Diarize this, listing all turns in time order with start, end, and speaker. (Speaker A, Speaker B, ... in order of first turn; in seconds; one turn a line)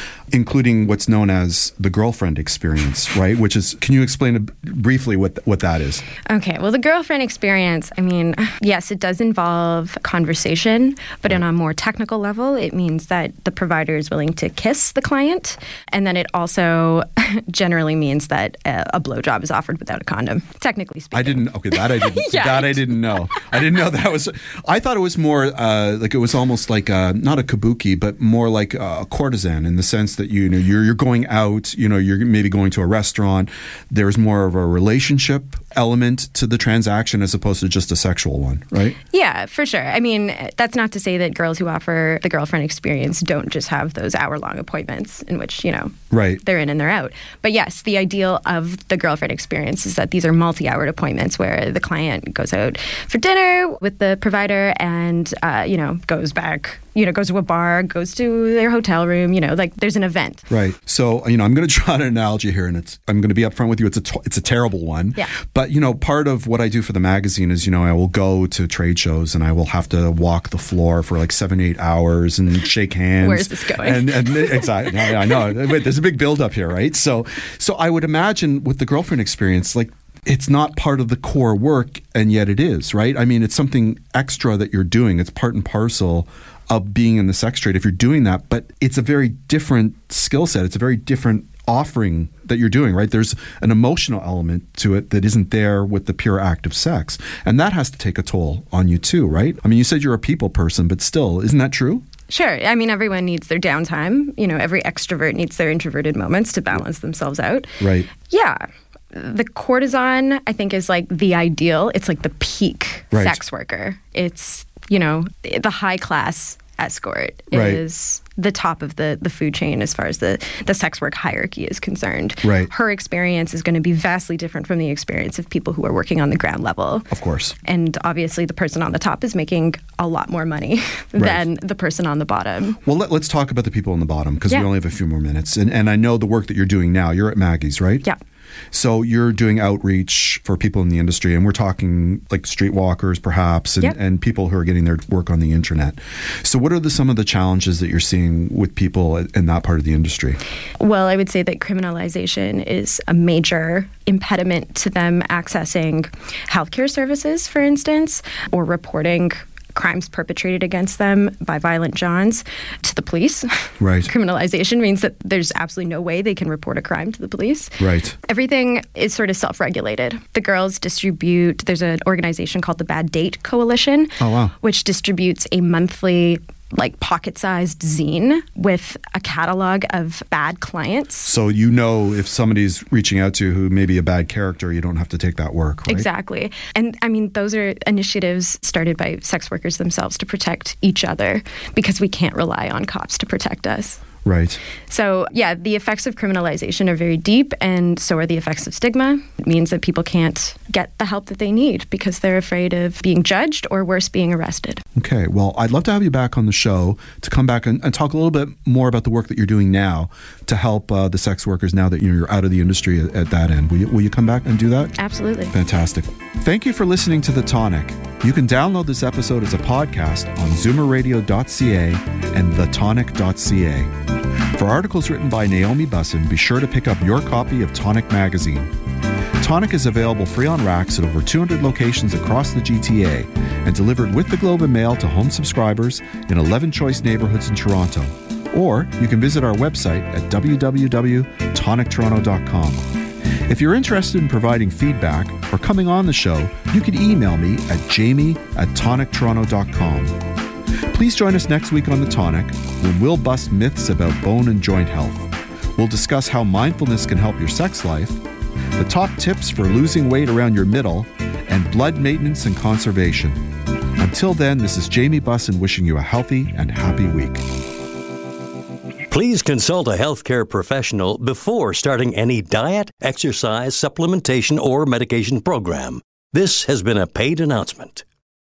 Speaker A: 0.3-6.0
Speaker B: 6.2-23.7
Speaker A: 21.1-39.0
Speaker B: 39.1-60.5
Speaker A: 46.1-46.4
Speaker A: 60.5-102.0
Speaker B: 73.2-75.4
Speaker B: 102.3-127.1
Speaker A: 107.8-108.1
Speaker A: 113.1-113.4
Speaker A: 117.5-117.8
Speaker A: 122.4-122.7
Speaker A: 127.1-127.5
Speaker B: 127.6-132.8
Speaker A: 131.2-131.4
Speaker A: 132.8-138.1
Speaker A: 138.7-150.4
Speaker B: 150.8-167.7
Speaker A: 163.8-164.1
Speaker A: 167.8-168.2
Speaker B: 168.2-181.3
Speaker A: 174.2-174.5
Speaker A: 181.2-186.1
Speaker B: 185.9-194.0
Speaker A: 194.2-194.6
Speaker B: 194.9-204.8
Speaker A: 204.9-214.9
Speaker B: 214.9-215.5
Speaker A: 215.5-223.9
Speaker A: 224.6-228.7
Speaker A: 229.4-242.9
Speaker A: 243.5-250.2
Speaker A: 250.9-258.2
Speaker A: 258.8-263.4
Speaker A: 264.0-267.4
Speaker C: 269.1-278.1